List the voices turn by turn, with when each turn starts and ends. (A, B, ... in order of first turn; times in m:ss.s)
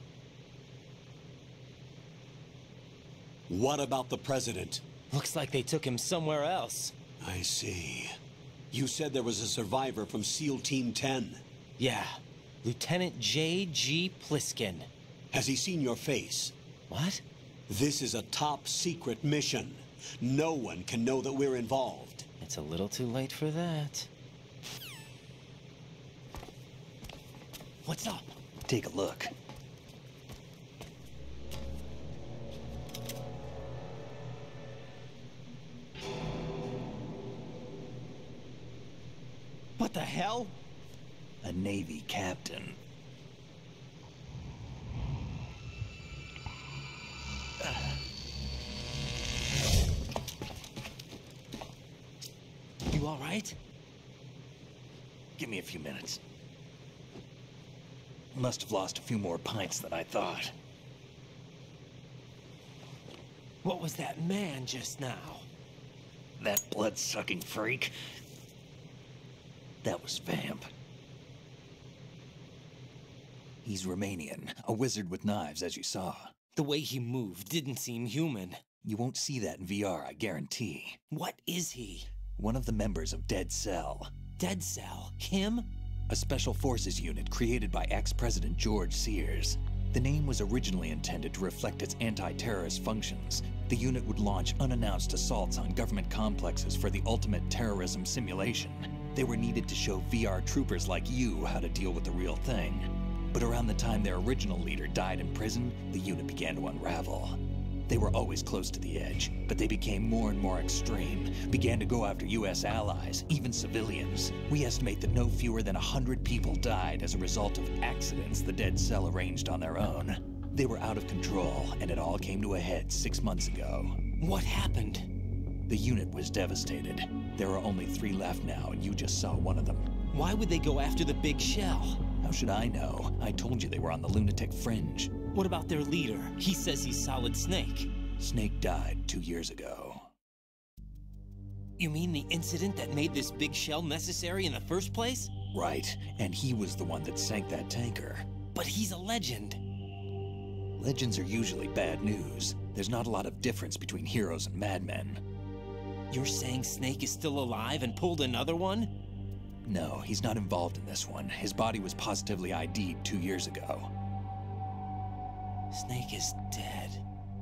0:03.5-0:04.8 A
0:05.1-0:06.9 B
0:07.2-0:08.1 A
0:08.7-0:11.4 A
0:11.8-0:14.9 B
0:15.3-0:16.5 A
0:16.9-0:17.2 B
0:17.7-0:22.2 A
0:22.4-0:24.1 B
0:27.8-0:28.2 B
0:28.6-0:29.3 C
0:39.8-0:40.6 B
0:41.4-0:42.8 C
0:47.6-0:47.9 C
0:52.9-0:53.6 B
0:55.4-0:56.2 C
0:58.3-1:00.5 C
1:03.6-1:05.5 B
1:06.4-1:08.0 C
1:09.8-1:10.7 C
1:13.6-1:16.3 C
1:16.6-1:18.6 B
1:18.8-1:21.0 C
1:21.1-1:22.1 B
1:22.4-1:24.1 C
1:24.4-1:25.7 B
1:26.1-2:04.0 C
2:04.2-2:05.1 B
2:05.7-2:09.9 C
2:10.1-2:12.0 B
2:12.2-2:15.1 C
2:15.3-2:17.9 B
2:18.2-2:20.1 C
2:21.8-2:25.3 B
2:25.5-2:28.3 C
2:28.5-2:29.6 B
2:30.8-2:35.2 C
2:36.1-2:38.9 B
2:39.6-2:43.9 C
2:45.7-2:47.0 B